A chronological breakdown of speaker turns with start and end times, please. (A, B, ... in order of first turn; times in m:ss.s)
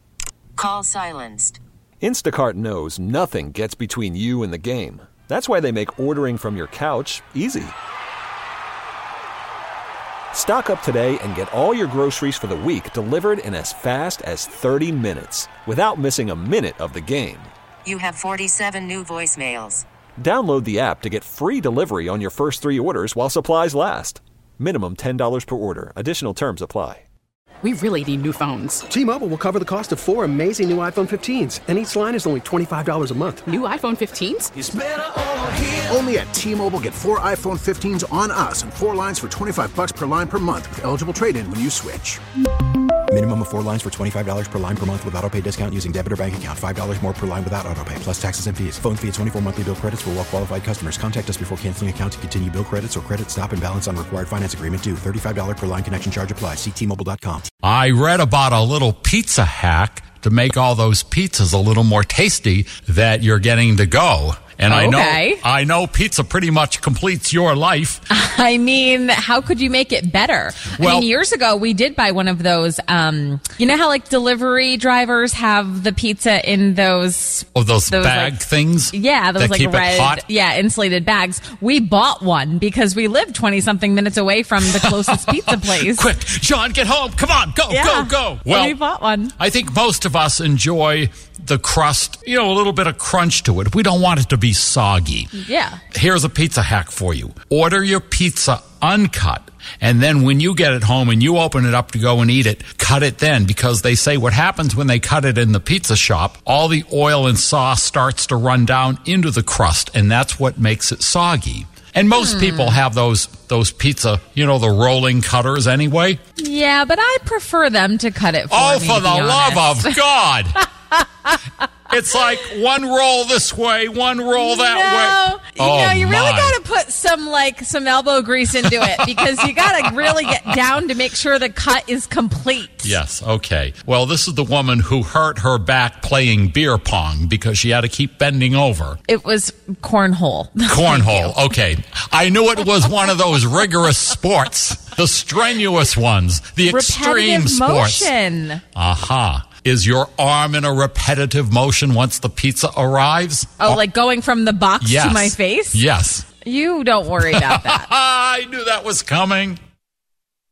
0:00.6-0:01.6 A
0:02.0-0:07.7 B
0:10.3-0:17.5 B
0:17.8-0:19.8 A
0:20.2-0:27.0 B
0:27.6-0:28.8 C
0:28.9-0:33.4 D
0:33.5-0:34.5 C
0:34.6-0:42.2 E
0:43.1-0:57.5 F
0:57.6-1:08.0 G
1:04.7-1:05.4 H
1:08.1-1:26.0 H
1:10.8-1:11.1 G
1:17.5-1:20.2 G
1:24.7-1:28.8 G
1:27.7-1:29.3 H
1:29.4-1:35.3 G
1:35.3-1:35.8 H
1:35.9-1:56.2 G
1:52.2-1:52.8 H
1:56.4-2:00.0 H
1:58.5-2:00.7 G
2:01.9-2:06.6 G
2:04.4-2:13.0 H
2:08.6-2:10.3 G
2:12.8-2:19.0 G
2:19.1-2:21.3 H
2:20.7-2:28.1 G
2:26.7-2:28.6 H
2:28.7-2:33.8 G
2:33.6-2:35.8 H
2:34.8-2:36.2 G
2:36.4-2:37.9 H
2:37.3-2:39.6 G